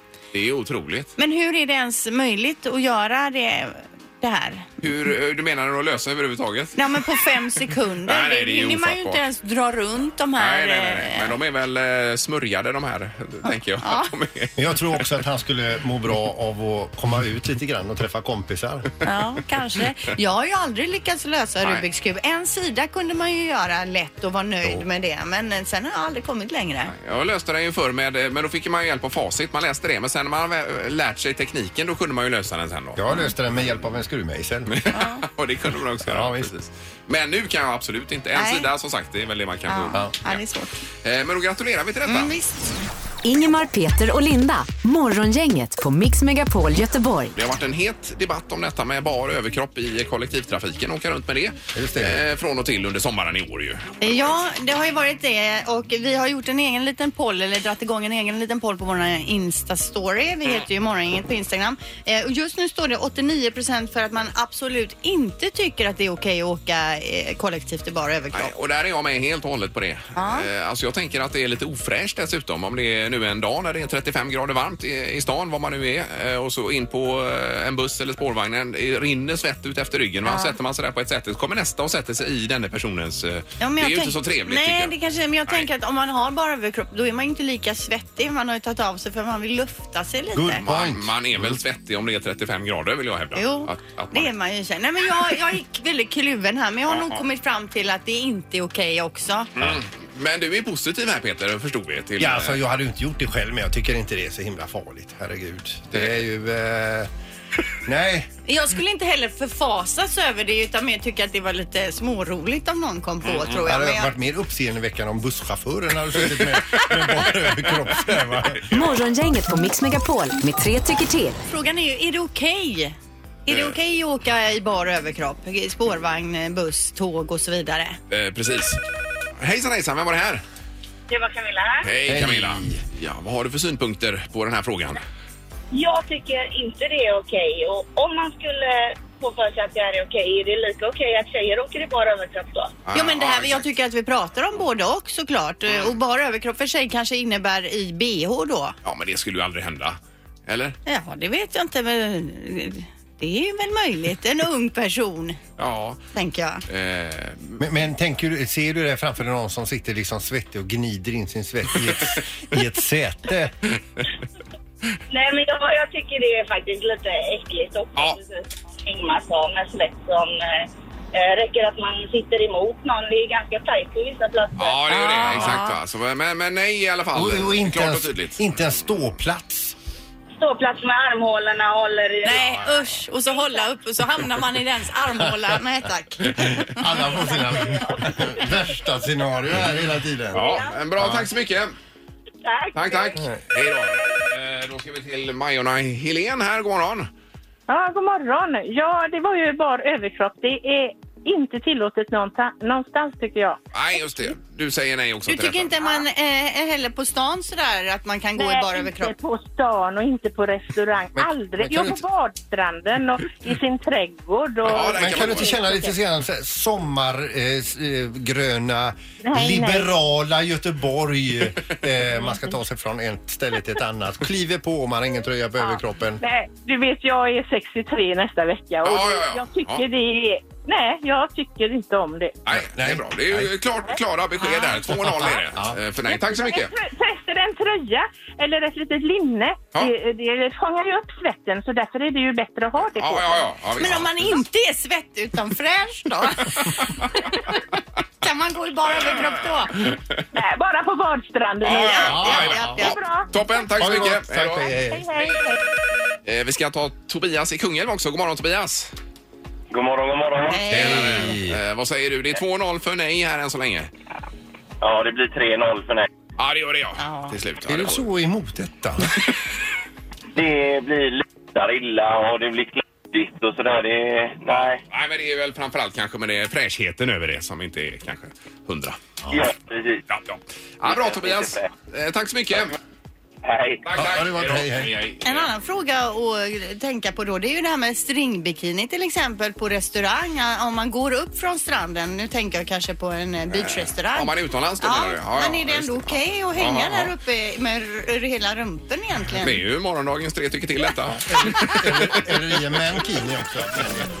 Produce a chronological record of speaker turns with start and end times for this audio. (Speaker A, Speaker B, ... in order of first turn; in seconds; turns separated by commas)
Speaker A: 0.3-1.1, Speaker B: 1.2-4.7, Speaker A: 4.8-6.8, Speaker B: 6.8-11.4, Speaker A: 8.1-9.2, Speaker A: 10.4-15.2, Speaker B: 13.4-14.1, Speaker C: 14.6-18.9, Speaker B: 19.0-26.9, Speaker A: 26.9-33.0, Speaker C: 33.0-34.7, Speaker A: 34.7-40.4, Speaker B: 34.9-35.2, Speaker C: 36.0-36.5, Speaker B: 38.3-38.7, Speaker B: 39.7-40.8, Speaker A: 41.0-42.3, Speaker B: 42.0-42.7, Speaker D: 43.2-47.3, Speaker A: 47.3-53.9, Speaker C: 51.7-52.2, Speaker B: 54.0-68.5, Speaker A: 68.3-84.9, Speaker B: 70.2-70.5, Speaker B: 80.2-80.6, Speaker B: 83.6-90.7, Speaker C: 90.3-91.5, Speaker A: 90.6-94.3, Speaker B: 93.3-99.5, Speaker A: 99.5-102.6, Speaker C: 102.2-107.1, Speaker A: 105.9-106.2, Speaker C: 107.8-108.3, Speaker B: 108.5-114.1, Speaker A: 113.2-113.7, Speaker C: 113.7-118.7, Speaker D: 118.7-121.3, Speaker B: 121.5-122.9, Speaker B: 123.5-128.0, Speaker A: 128.1-128.8, Speaker A: 129.4-130.4, Speaker E: 131.1-131.9, Speaker A: 131.8-135.0, Speaker C: 132.1-132.8, Speaker E: 135.7-142.8, Speaker A: 142.8-143.7, Speaker B: 142.9-148.7, Speaker A: 148.8-149.9, Speaker A: 150.5-150.8, Speaker B: 150.8-155.4, Speaker A: 155.6-156.0, Speaker B: 156.1-156.6, Speaker A: 156.7-157.6, Speaker C: 157.6-163.5, Speaker E: 165.1-174.8, Speaker A: 167.9-168.2, Speaker A: 174.6-178.4, Speaker B: 174.9-175.8, Speaker C: 177.1-179.7, Speaker E: 180.3-182.4, Speaker B: 182.2-187.0, Speaker C: 186.3-190.4, Speaker A: 190.3-191.7, Speaker E: 190.3-190.7, Speaker C: 191.0-191.3, Speaker E: 192.4-193.2, Speaker A: 192.7-197.1, Speaker C: 193.2-193.4, Speaker F: 197.7-203.6, Speaker A: 203.7-206.0, Speaker B: 205.3-209.1, Speaker F: 208.3-216.0, Speaker C: 211.1-212.0, Speaker A: 214.6-215.6, Speaker C: 214.7-226.2, Speaker F: 219.2-219.9, Speaker F: 222.1-222.6, Speaker F: 225.6-232.4, Speaker A: 228.8-229.8, Speaker A: 232.4-236.7, Speaker C: 232.5-233.5, Speaker C: 234.9-235.8, Speaker F: 236.1-243.5, Speaker A: 242.8-244.1, Speaker B: 243.8-249.9, Speaker F: 250.3-253.3, Speaker B: 251.6-253.0, Speaker A: 251.7-254.7, Speaker C: 252.0-252.9, Speaker C: 253.8-255.3, Speaker F: 253.9-255.6, Speaker A: 256.2-258.9, Speaker G: 259.7-260.6, Speaker B: 260.5-261.4, Speaker A: 260.7-263.9, Speaker C: 260.7-261.6, Speaker G: 264.8-266.1, Speaker A: 266.4-268.1, Speaker B: 267.0-267.4, Speaker C: 267.7-269.1, Speaker G: 270.4-274.8, Speaker A: 274.5-279.0, Speaker G: 279.3-280.0, Speaker A: 280.1-282.7, Speaker G: 280.9-281.7, Speaker G: 283.4-284.0, Speaker A: 283.8-285.5, Speaker C: 283.9-284.9, Speaker B: 285.2-299.6, Speaker A: 293.5-297.1, Speaker A: 299.4-302.2, Speaker C: 301.2-304.1